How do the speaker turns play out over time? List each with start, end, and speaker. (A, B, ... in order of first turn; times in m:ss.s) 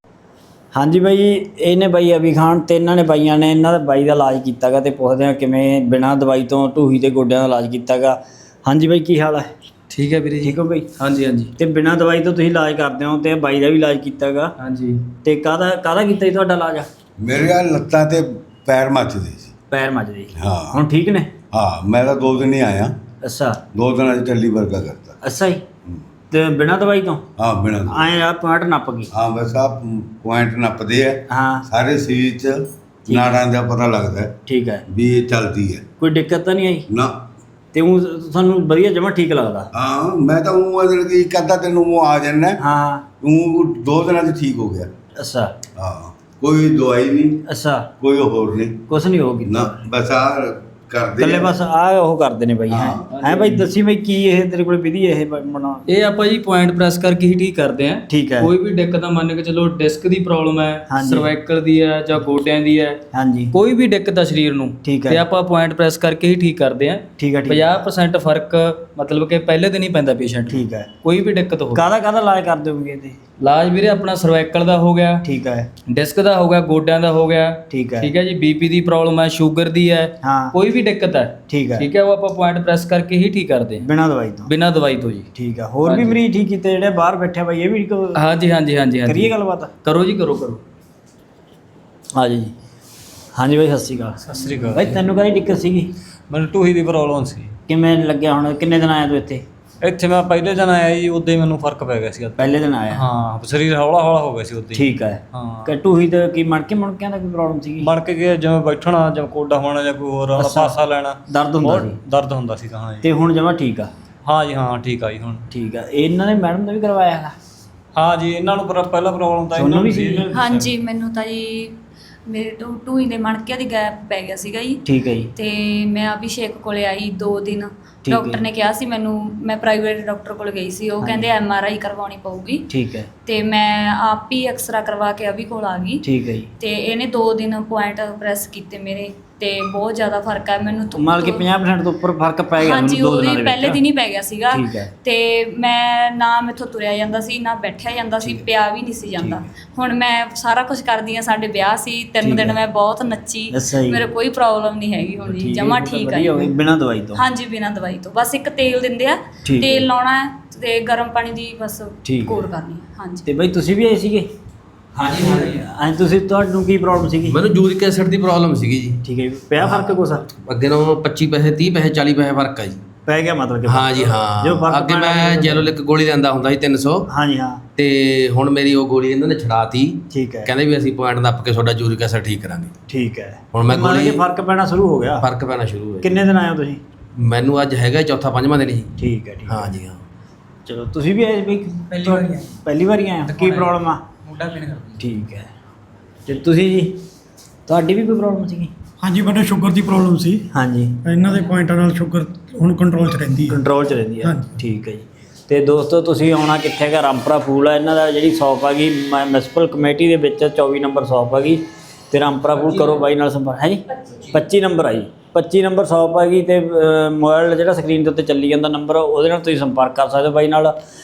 0:00.8-0:09.5 A
0:09.9-0:11.5 B
0:10.4-0:10.9 A
0:11.6-0:14.5 A
0:14.6-0:15.0 B
0:15.2-0:16.9 A
0:17.2-0:19.5 C
0:19.7-0:21.3 A
0:20.4-0:20.8 C
0:21.5-0:23.0 C
0:23.2-0:23.6 A
0:23.7-0:25.2 C
0:25.2-0:25.6 A
0:26.3-0:27.2 A
0:27.4-0:28.1 C
0:27.9-0:29.1 A
0:29.1-0:34.4 C
0:31.3-0:31.7 A
0:33.1-0:33.4 A
0:34.5-0:34.8 A
0:34.9-0:35.8 C
0:36.0-0:36.9 A
0:36.9-0:37.2 C
0:37.7-0:39.7 A
0:39.7-0:42.6 C
0:42.6-0:43.0 A
0:43.2-0:44.9 C
0:45.2-0:45.5 A
0:45.8-0:47.4 C
0:47.5-0:47.9 A
0:48.0-0:48.8 C
0:48.9-0:49.8 A
0:49.5-0:51.6 C
0:51.2-0:55.8 A
0:52.7-0:53.0 C
0:53.1-0:53.7 B
0:55.9-1:03.0 B
0:58.1-0:58.5 A
1:00.9-1:01.3 A
1:03.1-1:03.5 A
1:03.5-1:11.8 B
1:04.8-1:05.2 A
1:07.2-1:07.8 A
1:10.5-1:10.9 A
1:11.7-1:13.2 A
1:13.4-1:15.2 B
1:15.2-1:15.7 A
1:15.9-1:23.8 B
1:17.7-1:18.1 A
1:20.2-1:20.6 A
1:21.5-1:21.9 A
1:23.8-1:24.5 A
1:24.5-1:25.3 B
1:25.4-1:28.2 A
1:25.8-1:26.2 B
1:28.2-1:29.3 B
1:29.1-1:29.7 A
1:29.8-1:30.6 B
1:32.1-1:32.5 A
1:33.4-1:35.9 A
1:34.2-1:35.0 D
1:36.3-1:37.5 D
1:37.7-1:39.4 A
1:39.8-1:45.7 D
1:42.4-1:43.0 A
1:44.8-1:47.9 A
1:47.8-1:53.1 D
1:50.4-1:52.0 A
1:53.0-1:53.9 A
1:54.2-1:55.4 D
1:55.5-1:57.3 A
1:58.0-2:00.7 D
1:59.6-2:00.3 A
2:00.3-2:04.8 E
2:04.8-2:05.3 A
2:05.4-2:12.7 E
2:08.0-2:08.4 A
2:11.0-2:11.3 A
2:12.7-2:13.1 A
2:13.2-2:16.0 E
2:16.0-2:16.5 A
2:16.6-2:21.5 E
2:20.9-2:23.8 A
2:22.6-2:36.5 E
2:24.5-2:24.9 A
2:29.2-2:29.5 A
2:32.2-2:32.6 A
2:33.5-2:34.0 A
2:35.3-2:37.2 A
2:37.2-2:43.3 E
2:39.4-2:39.9 A
2:42.0-2:42.5 A
2:43.3-2:44.3 A
2:45.0-2:47.4 A
2:47.3-2:49.0 F
2:49.0-2:50.3 A
2:49.6-2:52.8 F
2:53.1-2:55.7 A
2:53.6-2:57.1 F
2:57.1-2:57.6 A
2:57.8-3:02.7 F
3:00.1-3:00.5 A
3:02.9-3:05.3 A
3:03.5-3:04.2 F
3:05.2-3:06.2 F
3:06.0-3:06.8 A
3:07.2-3:08.9 F
3:09.0-3:09.8 A
3:09.5-3:10.0 F
3:10.7-3:14.0 A
3:15.0-3:15.5 A
3:16.3-3:17.0 A
3:17.7-3:18.7 A
3:19.0-3:20.5 G
3:20.5-3:21.0 A
3:21.0-3:23.6 G
3:23.5-3:40.8 A
3:24.2-3:24.5 G
3:34.0-3:34.4 E